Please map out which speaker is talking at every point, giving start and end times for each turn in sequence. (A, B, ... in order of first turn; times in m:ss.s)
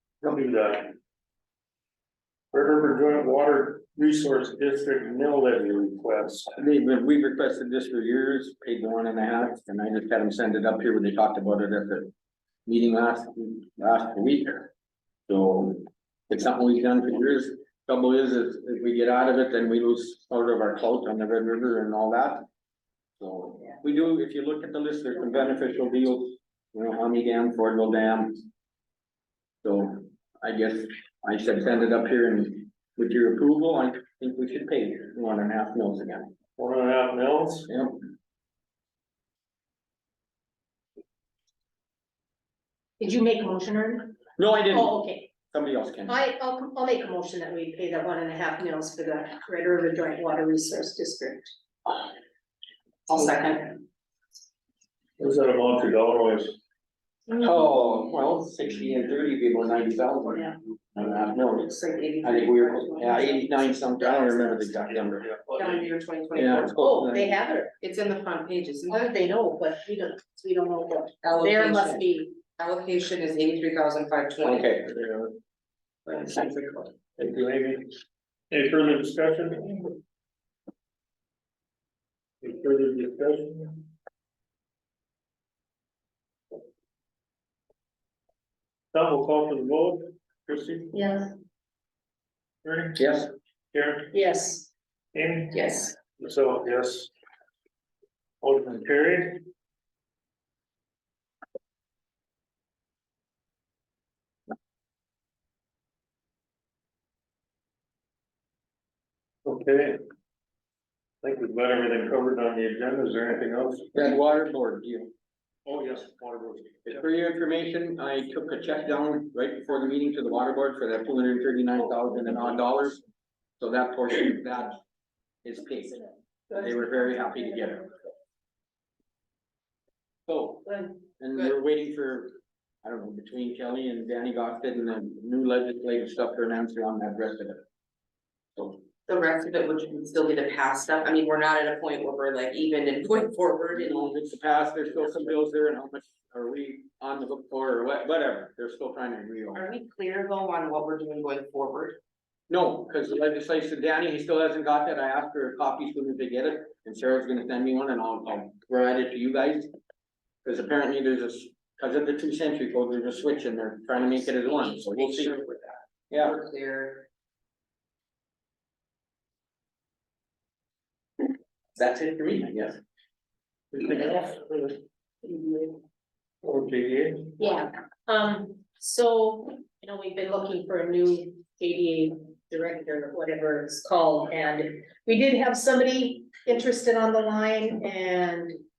0:00.2-0:01.0 A
0:02.5-0:06.5 A
0:06.6-0:12.1 B
0:12.6-0:14.7 B
0:15.3-0:22.4 B
0:23.2-0:28.4 B
0:29.6-0:36.3 B
0:36.6-0:37.7 A
0:37.7-0:38.0 B
0:43.0-0:45.3 C
0:44.4-0:46.2 B
0:46.1-0:51.5 C
0:53.1-0:53.8 D
0:55.2-0:56.6 A
0:57.3-1:01.7 B
1:01.5-1:04.7 D
1:02.2-1:05.3 B
1:04.9-1:05.9 A
1:05.5-1:06.8 D
1:06.3-1:07.4 B
1:06.8-1:07.7 C
1:07.8-1:09.2 D
1:08.9-1:12.3 C
1:11.2-1:14.8 D
1:14.4-1:15.3 B
1:16.1-1:16.9 D
1:17.2-1:18.0 A
1:18.5-1:20.0 A
1:22.4-1:23.9 A
1:28.9-1:31.0 A
1:30.9-1:31.3 C
1:32.6-1:34.2 A
1:33.0-1:33.3 B
1:34.1-1:34.7 C
1:35.1-1:37.1 A
1:35.5-1:35.9 D
1:38.4-1:39.4 A
1:49.4-1:50.0 A
1:51.2-1:54.0 A
1:54.0-1:55.1 B
1:55.7-1:57.0 A
1:56.9-2:03.0 B
2:03.6-2:04.8 B
2:05.4-2:07.9 B
2:10.3-2:17.6 B
2:19.0-2:24.2 D
2:23.7-2:29.6 B
2:29.5-2:32.0 D
2:32.5-2:39.7 B
2:40.4-2:45.3 B
2:44.4-2:47.0 D
2:46.1-2:46.4 B
2:51.7-2:52.8 B
2:53.7-2:54.8 A
2:55.3-2:55.7 C
2:56.4-2:57.4 A
2:57.4-3:08.6 C